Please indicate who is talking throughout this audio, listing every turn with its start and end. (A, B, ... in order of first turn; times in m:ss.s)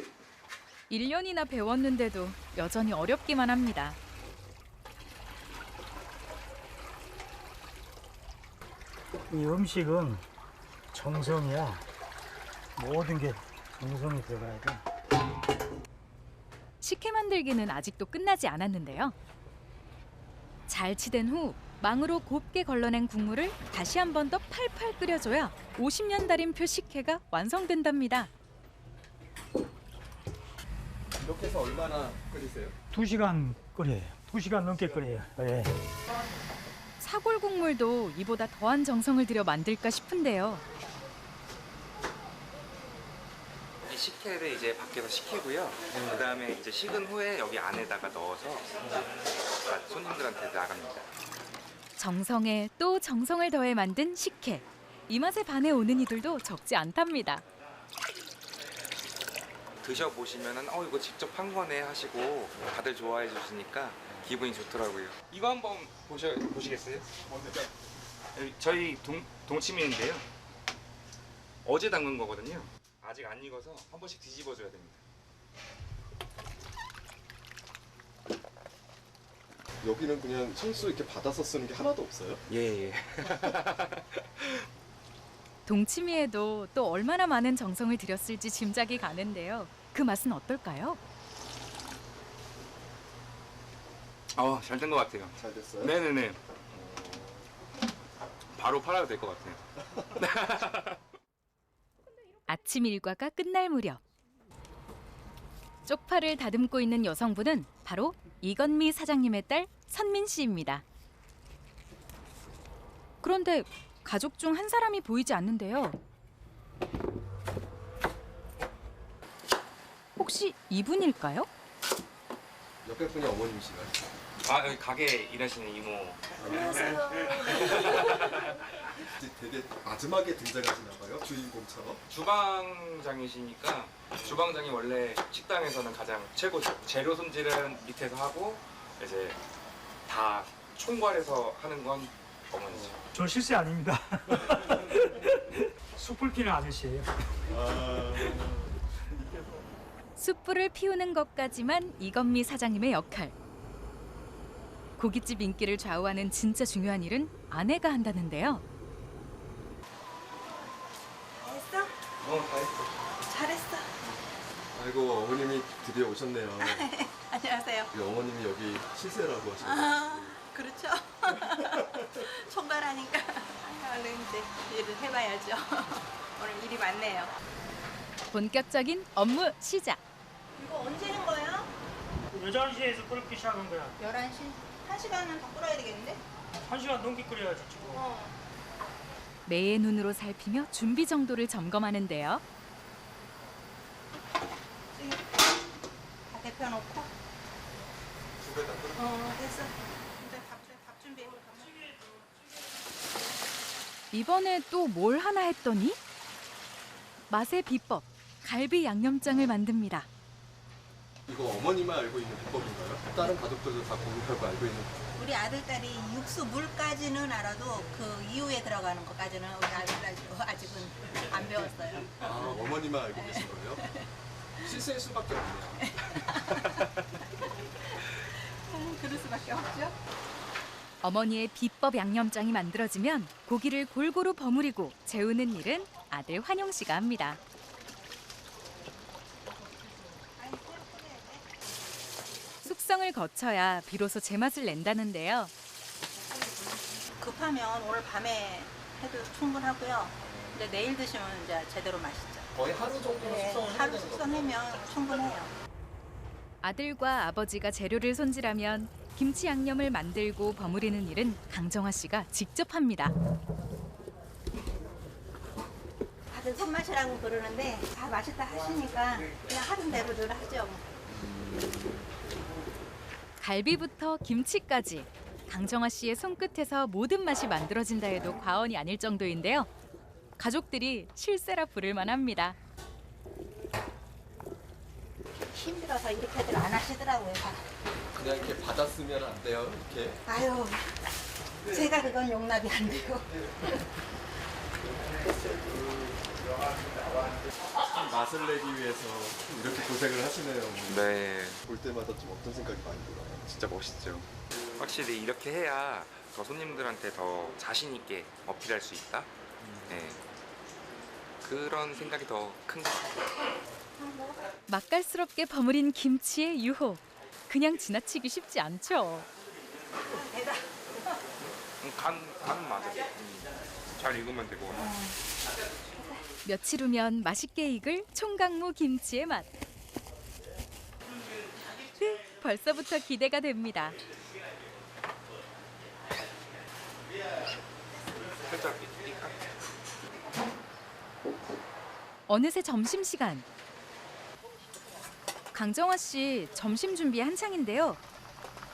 0:00.9-0:04.0 A
0:09.3-0:10.2 B
0:10.9-0:11.9 B
0:12.8-0:14.8 B
0:16.8-0:19.2 A
0:20.7-0:28.3 A
0:31.2-0:32.8 C
0:32.9-0:35.7 B
0:37.0-0:40.6 A
0:43.9-0:49.1 D
0:49.6-0:51.1 D
0:52.0-0:57.4 A
0:59.8-1:07.1 D
1:07.3-1:07.6 C
1:08.4-1:10.2 D
1:11.6-1:15.0 D
1:19.8-1:22.4 C
1:22.5-1:24.7 D
1:25.7-1:31.0 A
1:34.4-1:37.1 D
1:35.4-1:36.0 C
1:38.6-1:39.6 D
1:40.1-1:41.0 D
1:42.5-1:44.0 A
1:45.8-1:50.8 A
1:53.2-1:56.0 A
2:00.2-2:01.5 A
2:02.8-2:04.0 C
2:04.4-2:08.5 D
2:06.4-2:08.4 C
2:09.2-2:12.0 C
2:12.1-2:19.4 D
2:20.1-2:23.0 D
2:22.7-2:23.0 C
2:23.1-2:28.4 B
2:27.5-2:29.7 C
2:30.2-2:33.4 A
2:35.0-2:38.6 A
2:41.4-2:41.9 E
2:42.2-2:42.9 D
2:43.3-2:44.0 E
2:44.7-2:46.9 C
2:46.6-2:47.9 E
2:47.9-2:50.4 C
2:49.6-2:57.3 E
2:58.3-3:00.0 A
3:00.6-3:01.7 E
3:02.3-3:04.0 B
3:04.0-3:06.2 E
3:06.6-3:08.0 B
3:07.8-3:08.3 E
3:09.5-3:12.4 A
3:14.9-3:15.3 E
3:16.3-3:17.1 E
3:18.4-3:19.0 C
3:19.0-3:21.8 E
3:24.1-3:26.0 A
3:27.3-3:30.1 A
3:31.3-3:35.0 C
3:35.2-3:44.1 E
3:42.2-3:43.8 C
3:44.6-3:45.8 C
3:45.9-3:50.0 E
3:51.0-3:57.4 A
4:00.4-4:01.5 E
4:02.6-4:05.5 A
4:07.1-4:15.5 E
4:10.3-4:10.6 C
4:12.6-4:14.6 C
4:16.6-4:23.2 A
4:26.3-4:30.8 E
4:33.4-4:39.7 A
4:40.4-4:42.6 A
4:45.5-4:47.7 E
4:48.1-4:50.2 C
4:50.3-4:51.0 E
4:51.7-4:53.8 E
4:57.9-5:01.0 C
5:00.9-5:01.6 D
5:01.6-5:03.5 C
5:03.5-5:09.3 D
5:09.6-5:09.9 C
5:09.9-5:10.2 D
5:11.4-5:13.3 D
5:14.0-5:14.5 E
5:14.7-5:19.3 A
5:20.0-5:21.2 E
5:21.8-5:24.9 D
5:24.8-5:25.2 E
5:26.0-5:26.3 E
5:26.4-5:29.5 A
5:32.0-5:34.0 A
5:38.4-5:39.4 D
5:42.3-5:43.5 A
5:45.5-5:48.0 A